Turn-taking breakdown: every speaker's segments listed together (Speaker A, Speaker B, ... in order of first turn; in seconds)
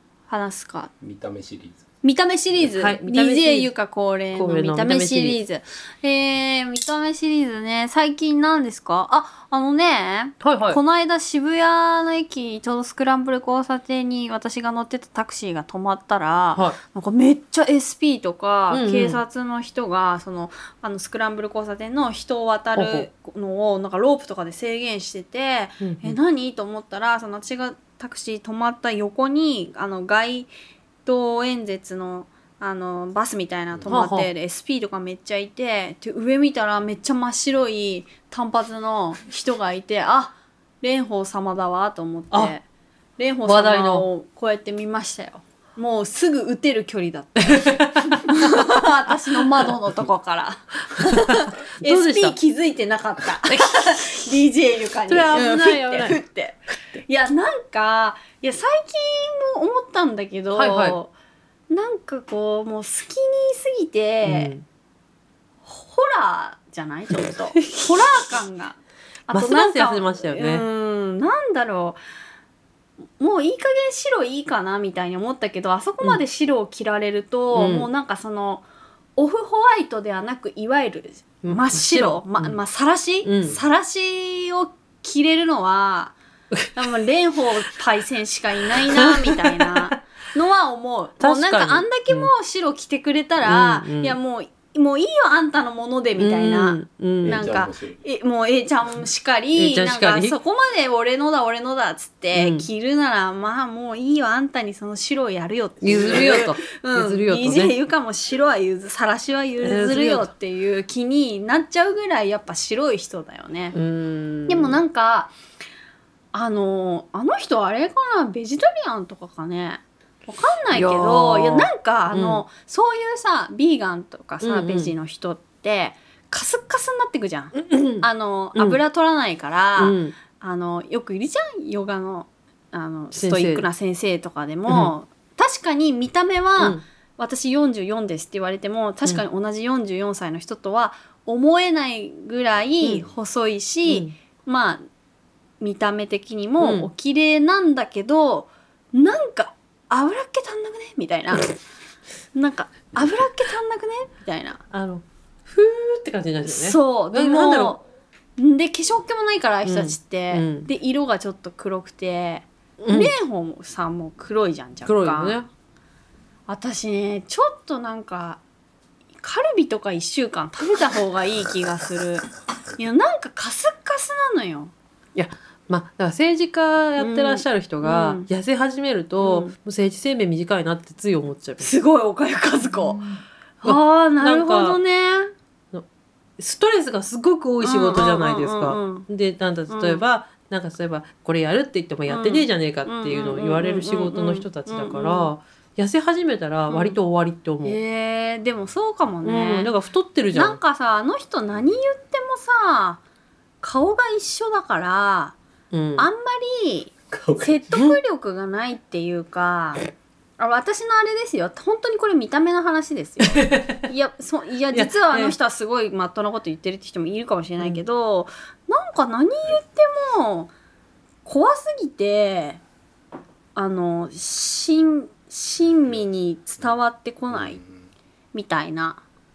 Speaker A: 0.3-0.9, 2.0-30.5, 31.1-42.6, 43.2-61.1, 61.7-64.5, 65.6-72.0, 73.2-78.6, 79.2-86.1, 86.7-113.8, 114.5-115.3, 116.3-144.8, 145.6-151.5, 152.3-154.6, 156.4-157.8, 158.4-165.4, 166.5-168.4, 169.2-174.7, 177.0-178.3, 179.2-179.5, 181.6-183.0, 183.6-185.3, 187.6-189.1, 189.7-190.0, 192.1-195.3, 196.7-197.0, 197.6-199.7, 200.3-203.0, 203.6-205.3, 206.0-209.8, 210.4-220.5, 221.2-222.6, 223.5-227.6, 228.3-229.0
Speaker B: 1.0-1.8, 97.2-98.0, 207.1-207.6, 227.3-227.9
Speaker C: 2.7-3.7, 4.3-5.4, 10.4-10.8, 18.7-19.2, 22.8-23.1, 25.8-26.2, 33.9-34.3, 43.5-44.1, 47.4-48.5, 51.0-52.4, 53.5-54.0, 55.1-56.2, 60.5-61.0, 64.2-64.6, 67.5-68.0, 69.3-70.6, 77.5-77.9, 81.4-82.6, 83.2-83.6, 88.7-89.8, 91.2-92.3, 93.4-94.2, 96.2-97.5, 99.5-100.3, 102.3-102.7, 105.8-107.7, 109.6-110.3, 113.7-114.8, 120.7-122.4, 124.4-124.9, 127.5-128.8, 129.8-130.1, 133.1-133.7, 134.7-134.9, 136.6-136.8, 143.9-144.1, 146.6-146.9, 154.7-157.8, 159.6-160.7, 162.8-163.1, 164.8-165.5, 175.1-181.7, 182.9-184.8, 186.4-197.8, 199.2-200.6, 205.7-206.1, 207.7-208.0, 213.2-213.8, 214.7-215.3